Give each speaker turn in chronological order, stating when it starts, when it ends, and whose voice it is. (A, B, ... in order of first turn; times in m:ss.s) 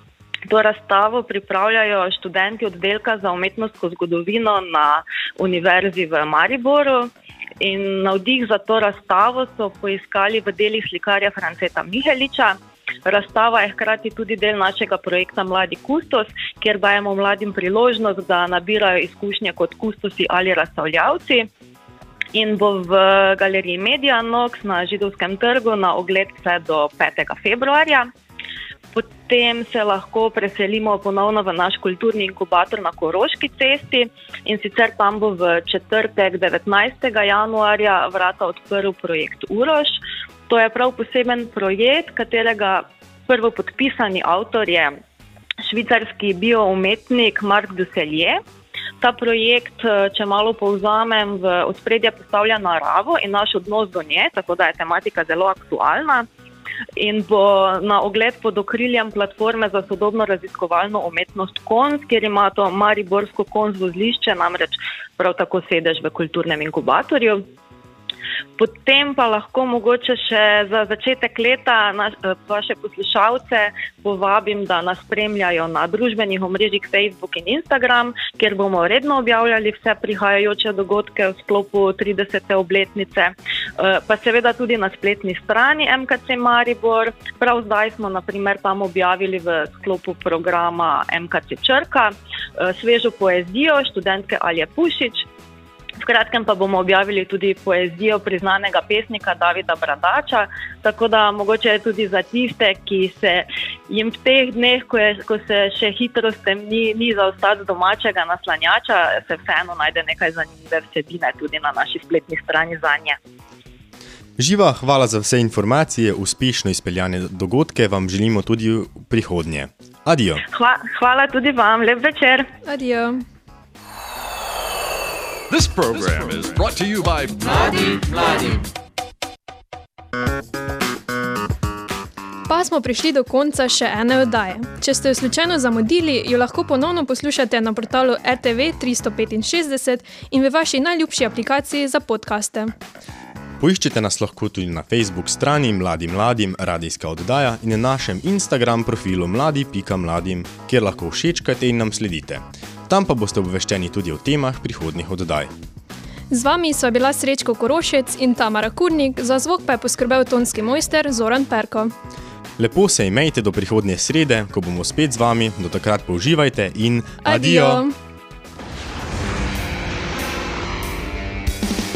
0:00.5-0:07.1 A
0:07.6-0:21.5 A
0:22.3-0:28.1 A
0:28.9-0:45.0 A
0:45.6-0:48.4 A
0:49.0-0:56.3 A
0:57.0-1:07.4 A
1:08.6-1:35.2 A
1:36.0-1:53.2 A
1:54.4-2:00.4 B
2:00.5-2:02.5 A
2:02.6-2:03.2 C
2:05.5-2:07.6 D
2:12.5-2:22.7 C
2:23.6-2:35.5 B
2:36.3-2:41.9 C
2:42.6-2:47.8 B
2:47.2-2:47.9 C